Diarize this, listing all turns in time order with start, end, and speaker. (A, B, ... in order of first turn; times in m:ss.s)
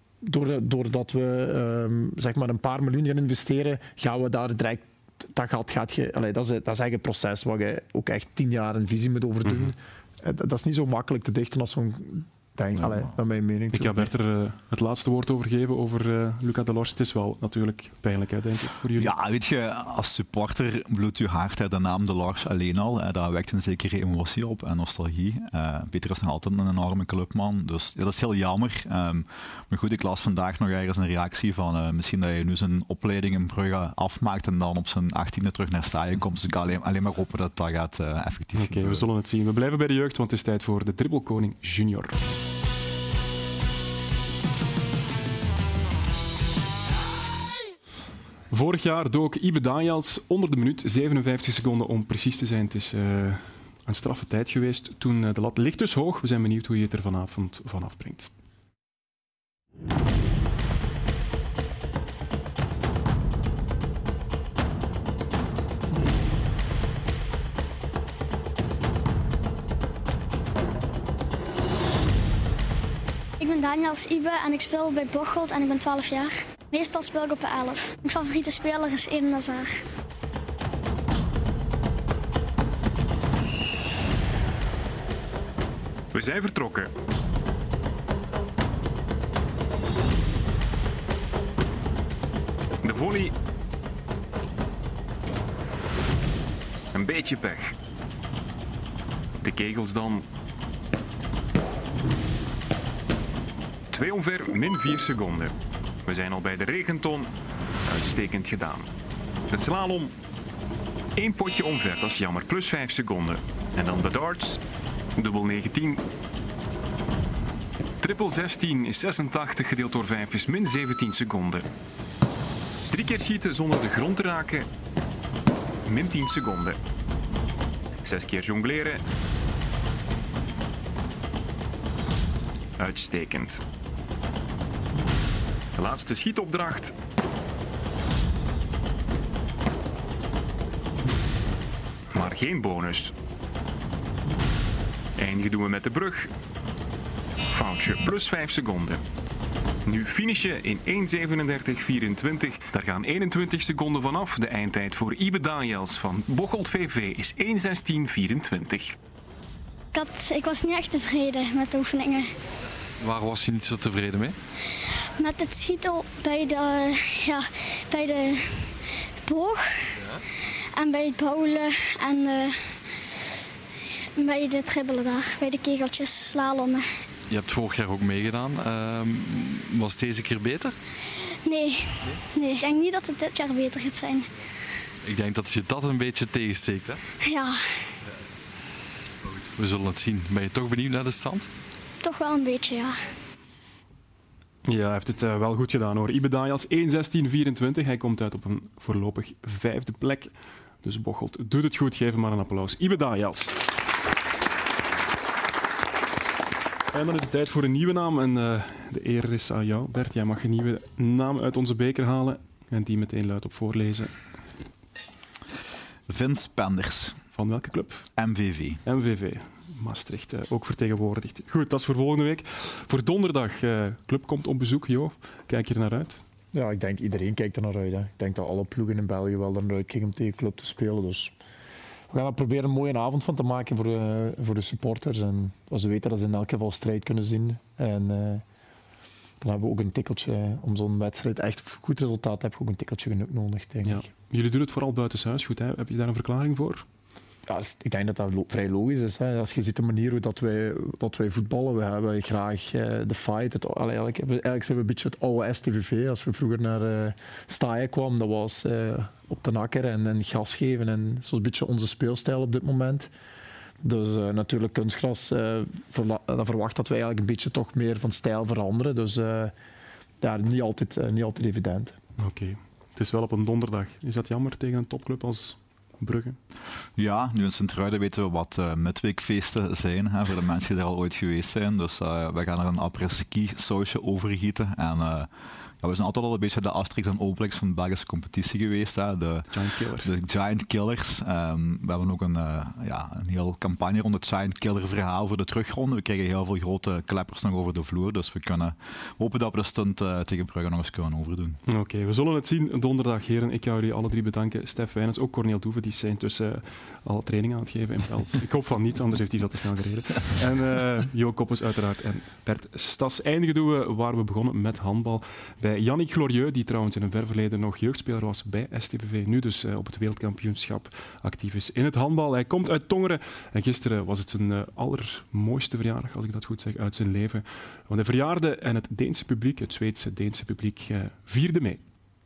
0:00.2-0:14.1 A
0:09.4-0:09.7 B
0:13.7-0:19.1 B
0:18.9-0:39.1 C
0:38.6-0:42.2 B
0:48.5-0:58.3 B
1:13.4-1:19.8 D
1:26.1-1:26.9 B
1:32.8-1:33.3 B
1:36.9-1:37.7 B
1:39.4-1:40.2 B
1:43.9-1:45.5 B
1:46.1-1:47.3 B
1:47.9-1:48.9 B
1:49.5-1:50.1 B
1:51.2-1:54.6 B
1:55.2-1:56.0 B
1:58.0-2:01.7 B
2:02.9-2:04.7 B
2:05.9-2:06.8 B
2:08.0-2:09.0 B
2:12.8-2:13.6 B
2:15.8-2:16.9 B
2:22.1-2:23.1 B
2:25.2-2:26.3 B
2:27.5-2:29.0 B
2:29.9-2:38.9 B
2:39.9-2:42.3 D
2:43.0-2:44.3 E
2:45.2-2:48.7 D
2:49.3-2:49.8 D
2:50.8-2:52.8 D
2:54.2-2:56.8 D
2:57.3-3:00.8 E
3:01.5-3:04.3 D
3:05.0-3:07.0 E
3:07.2-3:07.8 D
3:09.2-3:11.5 E
3:12.0-3:13.0 D
3:14.6-3:20.3 B
3:20.8-3:23.5 B
3:26.9-3:34.2 B
3:36.1-3:37.2 C
3:37.4-3:38.0 B
3:38.2-3:38.8 C
3:38.8-3:46.2 B
3:46.5-3:51.3 A
3:52.1-3:58.4 A
3:59.4-4:04.1 A
4:03.8-4:06.8 B
4:07.5-4:23.1 A
4:23.8-4:29.5 A
4:30.2-4:32.0 A
4:32.2-4:36.4 B
4:37.0-4:45.3 C
4:45.8-5:01.6 C
4:49.5-4:50.1 B
5:01.7-5:31.8 B